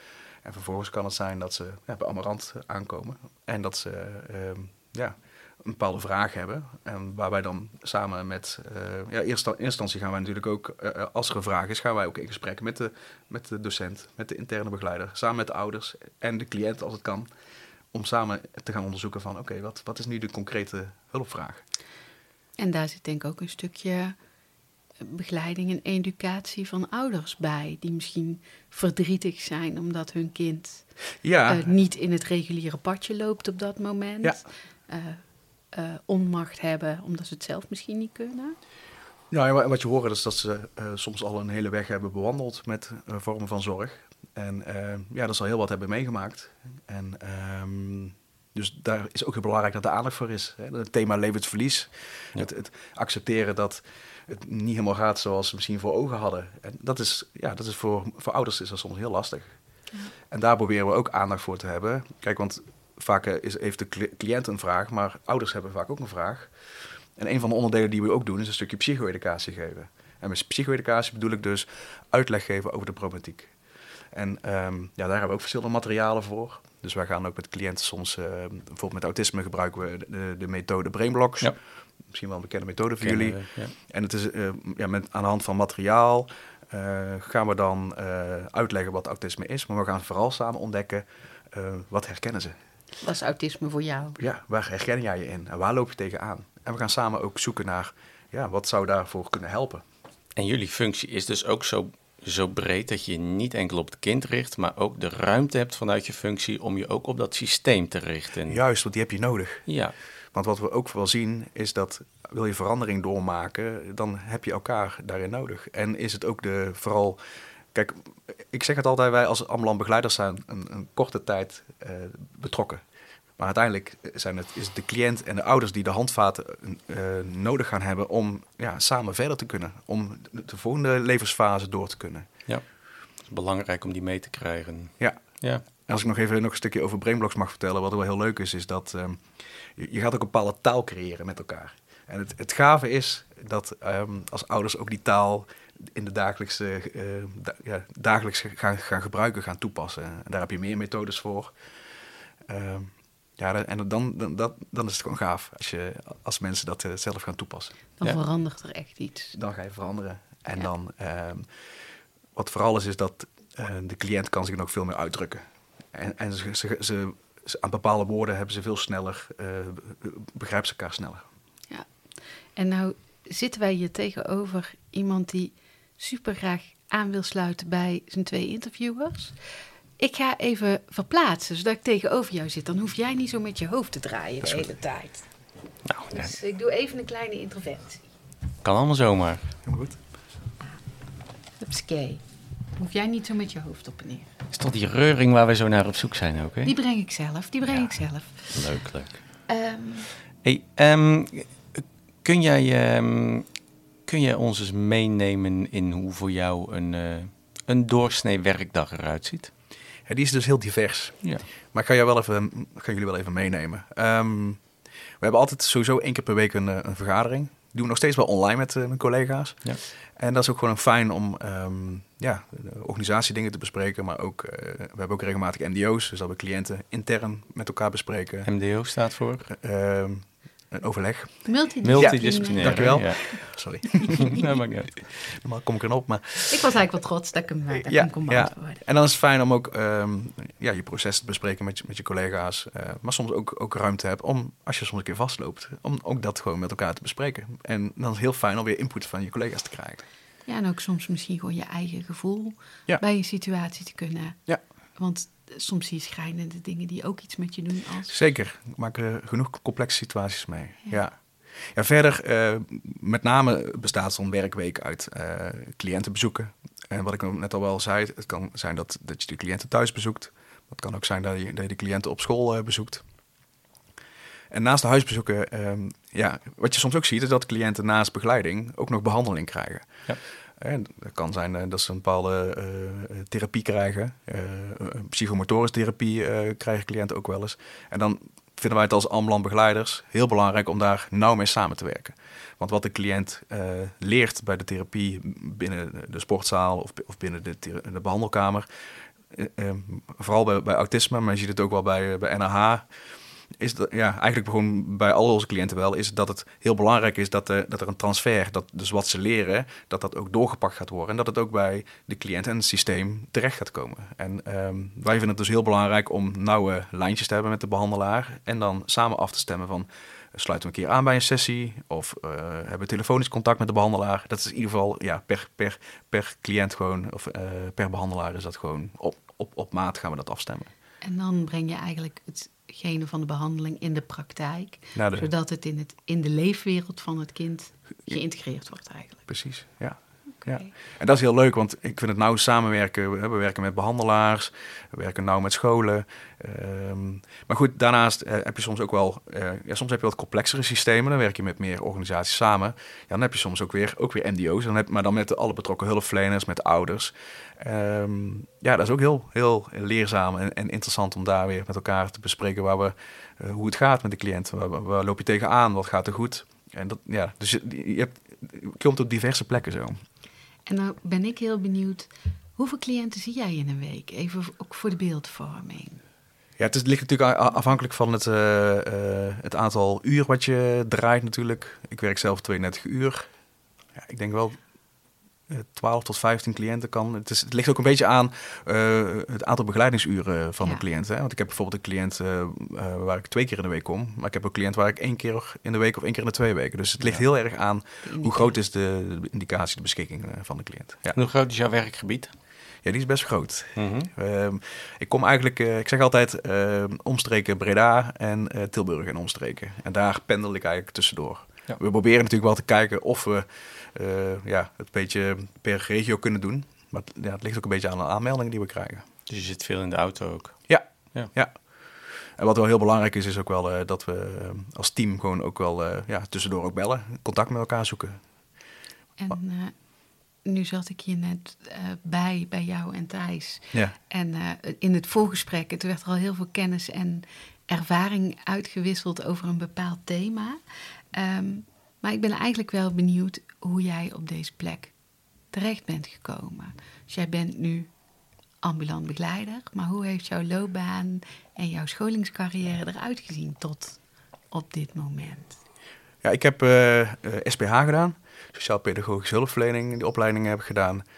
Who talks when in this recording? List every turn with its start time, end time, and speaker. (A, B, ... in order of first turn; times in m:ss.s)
0:00.4-0:17.3 A
0:17.9-0:21.6 A
0:22.6-0:24.2 B
0:25.0-0:38.6 B
0:31.2-0:31.7 A
0:39.3-0:59.5 A
1:00.3-1:06.5 A
1:07.2-1:13.5 A
1:14.1-1:21.6 A
1:22.1-1:32.6 A
1:23.0-1:23.7 C
1:33.0-1:34.2 B
1:34.2-1:39.8 A
1:40.4-1:48.6 C
1:48.5-1:49.7 A
1:49.7-1:49.9 C
1:50.3-1:57.2 A
1:57.7-2:02.8 A
2:03.4-2:12.3 A
2:13.3-2:15.6 C
2:15.0-2:31.5 A
2:32.5-2:37.8 A
2:38.0-2:39.4 B
2:39.3-2:41.5 A
2:42.4-2:51.2 A
2:52.6-3:05.3 B
3:05.8-3:06.4 C
3:06.1-3:08.0 B
3:08.6-3:09.5 C
3:09.6-3:10.0 A
3:11.6-3:12.2 B
3:12.8-3:14.3 B
3:14.5-3:16.8 C
3:16.6-3:18.6 B
3:17.7-3:19.2 C
3:19.5-3:20.1 B
3:20.4-3:23.5 C
3:24.1-3:29.5 C
3:30.1-3:34.6 A
3:35.2-3:48.5 A
3:48.4-3:49.5 C
3:49.5-3:54.4 A
3:51.5-3:53.4 B
3:51.8-3:55.0 C
3:54.0-3:54.4 B
3:55.1-3:56.6 A
3:56.5-3:58.8 B
3:57.7-4:10.0 A
4:10.5-4:14.4 B
4:15.0-4:18.1 B
4:18.1-4:33.0 A
4:34.5-4:58.7 A
4:59.3-5:02.9 A
5:03.6-5:30.7 A
5:31.0-5:39.3 B
5:35.0-5:35.3 A
5:39.3-6:10.0 A
5:40.4-5:40.7 B
6:10.7-6:16.0 B
6:16.6-6:23.3 A
6:24.0-6:24.6 A
6:25.5-6:41.2 A
6:38.0-6:38.5 B
6:41.1-6:42.3 C
6:42.8-6:59.1 A
6:43.8-6:44.1 C
6:59.3-7:00.6 C
7:00.7-7:01.6 A
7:02.4-7:08.2 A
7:09.2-7:09.8 B
7:10.4-7:20.6 B
7:21.1-7:24.9 B
7:25.5-7:27.9 B
7:28.6-7:34.0 B
7:34.5-7:35.6 B
7:36.2-7:41.0 A